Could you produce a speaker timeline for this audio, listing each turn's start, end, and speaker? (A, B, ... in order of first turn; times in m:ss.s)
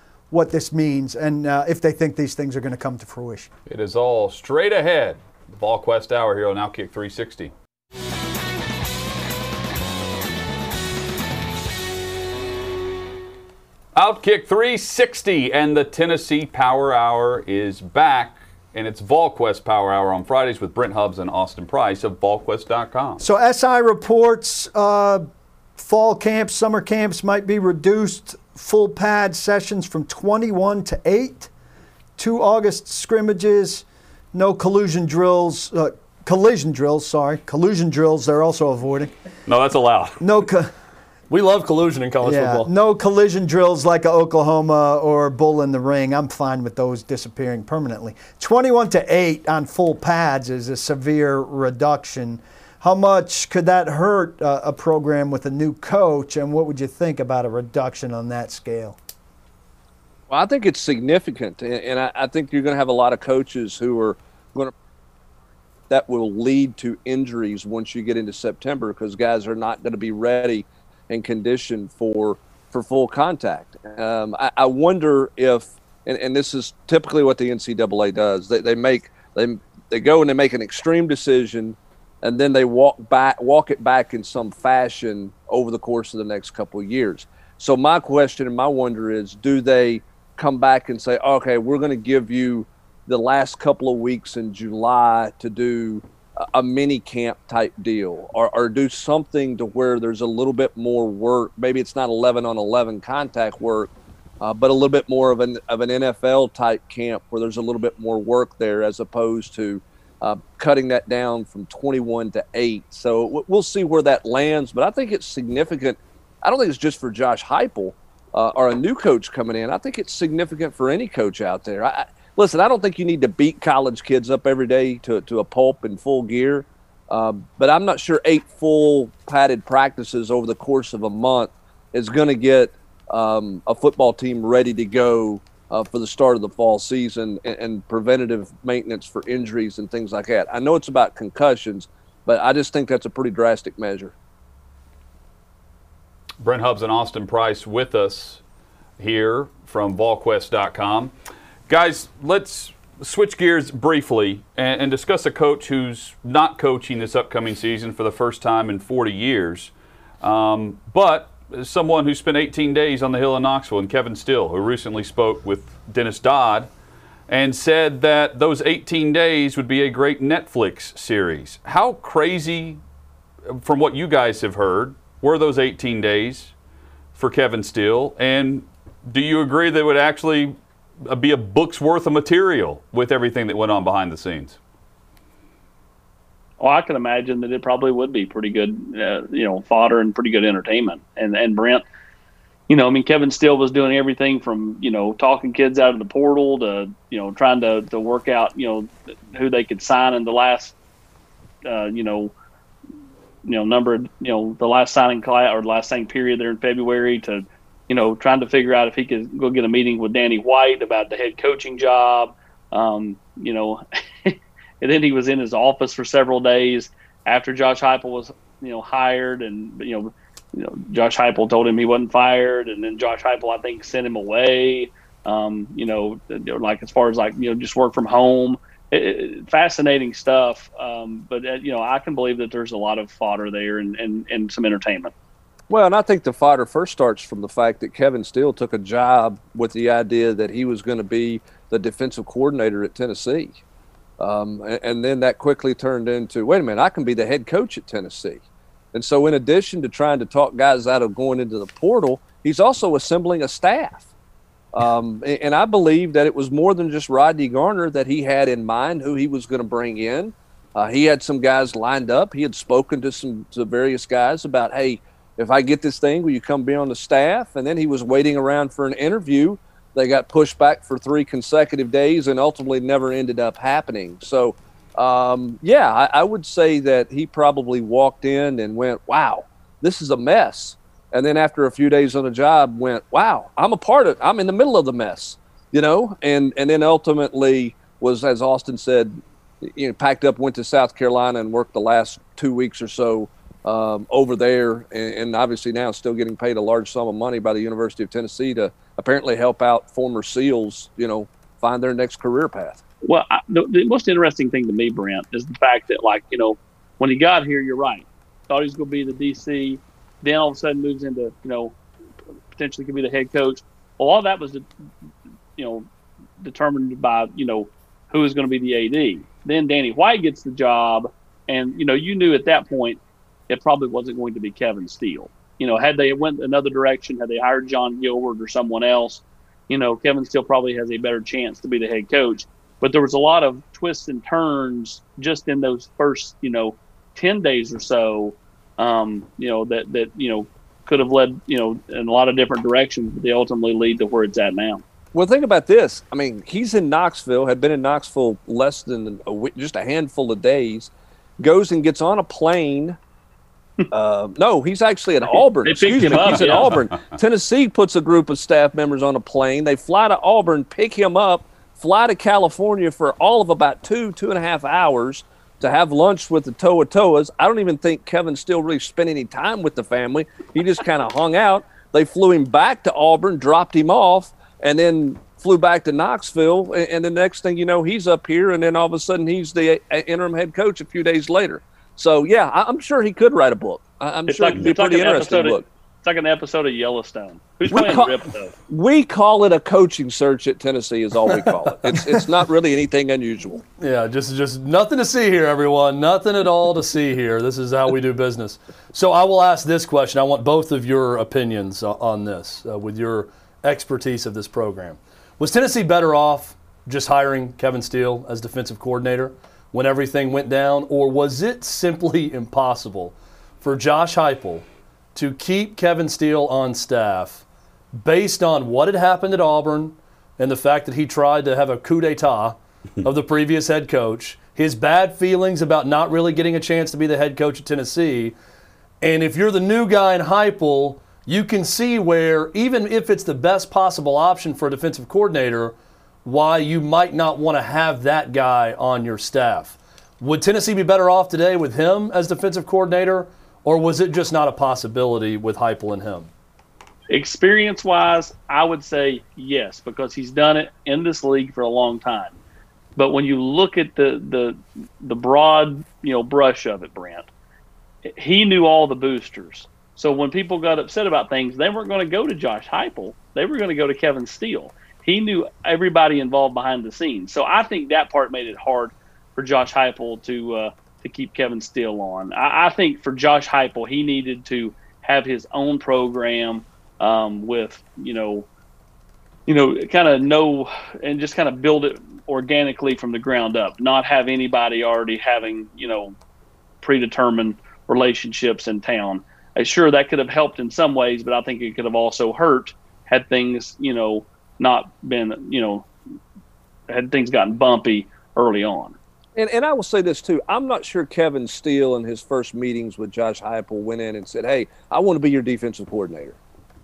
0:00.3-0:03.5 A
0:03.7-0:07.5 B
0:14.0-0:23.2 B
0:23.2-0:25.2 A
0:25.8-0:31.5 A
0:32.2-0:39.1 A
0:39.5-0:40.2 B
0:40.2-0:40.7 A
0:41.3-0:42.7 C
0:42.2-0:59.0 A
1:00.3-1:04.7 D
1:05.9-2:24.1 D
2:26.4-2:28.4 B
2:29.0-2:31.1 B
2:31.7-2:46.7 B
2:47.3-2:52.8 B
2:53.5-2:56.5 B
2:57.2-3:04.6 B
3:06.6-3:11.8 E
3:12.7-3:20.8 E
3:21.6-3:22.3 E
3:23.4-3:55.1 E
3:55.7-4:03.6 D
4:04.2-4:08.4 D
4:08.9-4:14.1 D
4:14.7-5:02.8 D
5:03.0-5:11.8 E
5:12.6-5:14.7 E
5:15.6-5:15.9 E
5:16.4-5:44.8 E
5:45.1-5:53.0 D
5:53.9-6:25.6 D
5:55.3-5:56.8 E
6:24.3-6:28.5 E
6:27.7-6:28.2 D
6:28.7-6:33.6 D
6:31.9-6:32.2 A
6:33.8-6:57.4 C
6:58.0-7:08.3 C
7:09.0-7:26.3 C
7:27.1-7:32.4 E
7:33.0-7:37.3 E
7:38.2-7:58.5 E
7:59.5-8:06.2 E
8:06.8-8:15.9 E
8:16.9-8:19.0 E
8:19.4-8:26.4 D